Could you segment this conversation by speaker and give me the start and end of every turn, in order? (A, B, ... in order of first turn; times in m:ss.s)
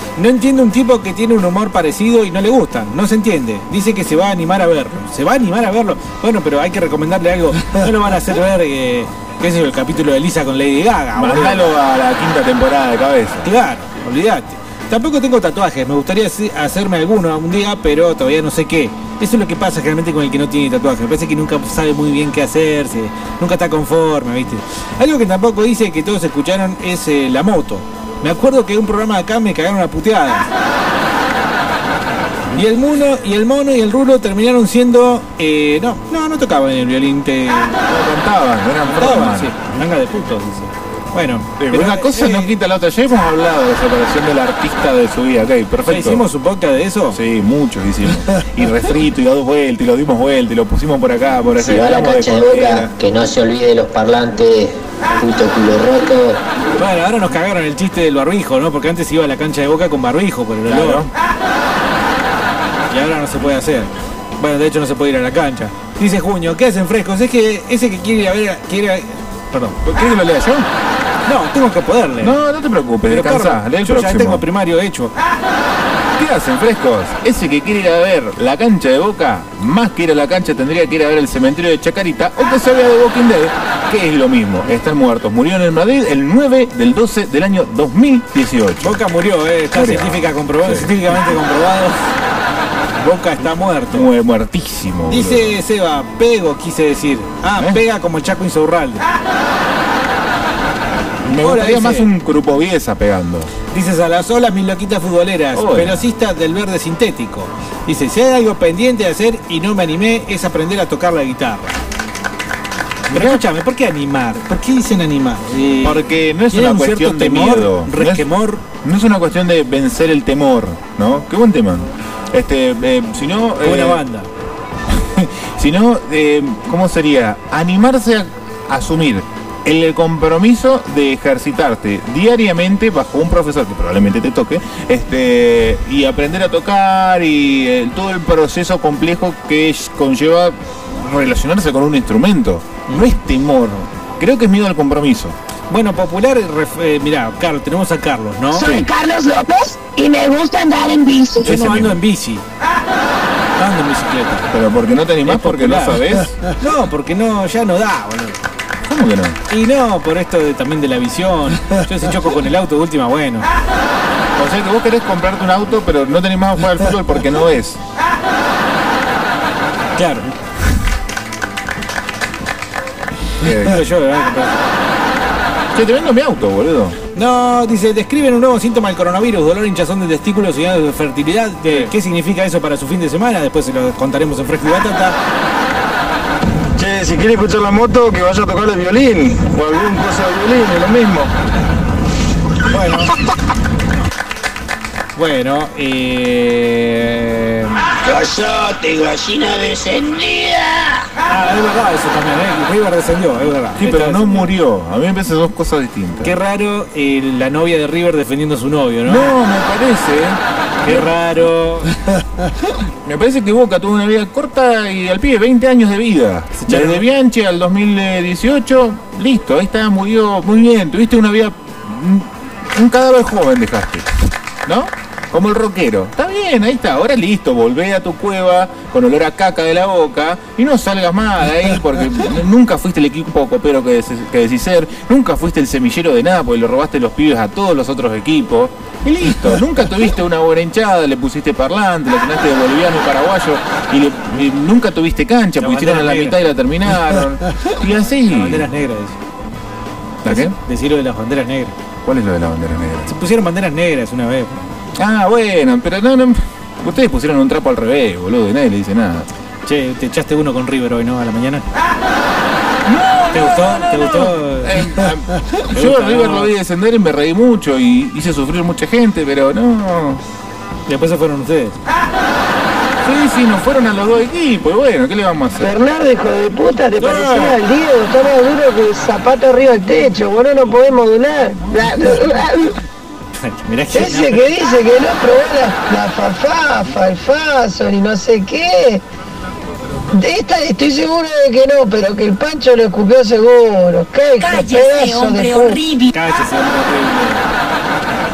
0:00.2-0:11.7 A
0:11.2-0:13.5 B
0:13.4-0:30.5 A
0:32.5-0:37.8 A
0:37.8-0:39.5 B
0:38.8-0:42.5 A
0:41.6-0:46.2 B
0:45.8-0:47.2 A
0:47.1-0:52.9 B
0:51.6-0:56.4 C
0:56.8-1:01.0 A
1:00.7-1:01.1 B
1:02.9-1:09.8 A
1:09.8-1:10.7 B
1:11.3-1:12.4 A
1:12.2-1:14.4 B
1:13.1-1:15.1 A
1:16.2-1:29.0 B
1:28.8-1:32.0 A
1:29.7-1:31.4 B
1:33.0-1:34.1 A
1:33.9-1:35.6 B
1:35.1-1:39.0 A
1:37.6-1:37.8 B
1:41.3-1:43.5 B
1:41.4-1:42.1 A
1:43.7-1:51.8 A
1:45.5-1:46.0 B
1:53.1-1:53.4 B
1:53.1-1:58.6 A
1:55.8-1:58.3 B
1:58.8-2:04.0 B
2:03.6-2:04.3 A
2:04.9-2:25.4 B
2:25.7-2:28.8 A
2:28.6-2:28.9 B
2:29.0-2:31.0 D
2:31.4-2:32.4 A
2:31.4-2:32.0 B
2:33.6-2:34.5 A
2:34.5-2:36.4 B
2:35.2-2:36.0 A
2:36.6-2:38.4 A
2:38.9-2:39.4 B
2:39.5-2:43.5 A
2:44.4-2:47.8 B
2:50.0-2:50.3 A
2:53.4-2:53.8 B
2:53.6-2:54.7 A
2:55.7-2:57.0 B
2:57.2-3:05.2 A
3:01.7-3:01.9 B
3:06.8-3:11.3 E
3:12.7-3:13.1 A
3:15.2-3:17.8 A
3:18.0-3:21.0 F
3:21.3-3:24.5 A
3:23.8-3:26.4 B
3:26.2-3:29.3 A
3:29.1-3:31.1 B
3:30.8-3:31.9 A
3:33.0-3:44.1 B
3:36.6-3:37.0 A
3:44.6-4:08.7 B
4:05.6-4:06.4 A
4:08.1-4:09.2 A
4:10.2-4:10.6 B
4:10.3-4:11.8 A
4:12.0-4:13.1 B
4:13.1-4:14.6 A
4:15.0-4:19.3 B
4:19.7-4:21.6 A
4:22.8-4:30.2 B
4:23.3-4:24.8 A
4:25.7-4:26.5 A
4:30.9-4:31.8 A
4:33.0-4:35.8 B
4:35.6-4:42.8 G
4:37.0-4:37.6 A
4:43.4-4:44.5 A
4:43.9-4:49.0 G
4:50.1-4:55.9 G
4:54.5-4:56.0 D
4:56.1-4:57.4 A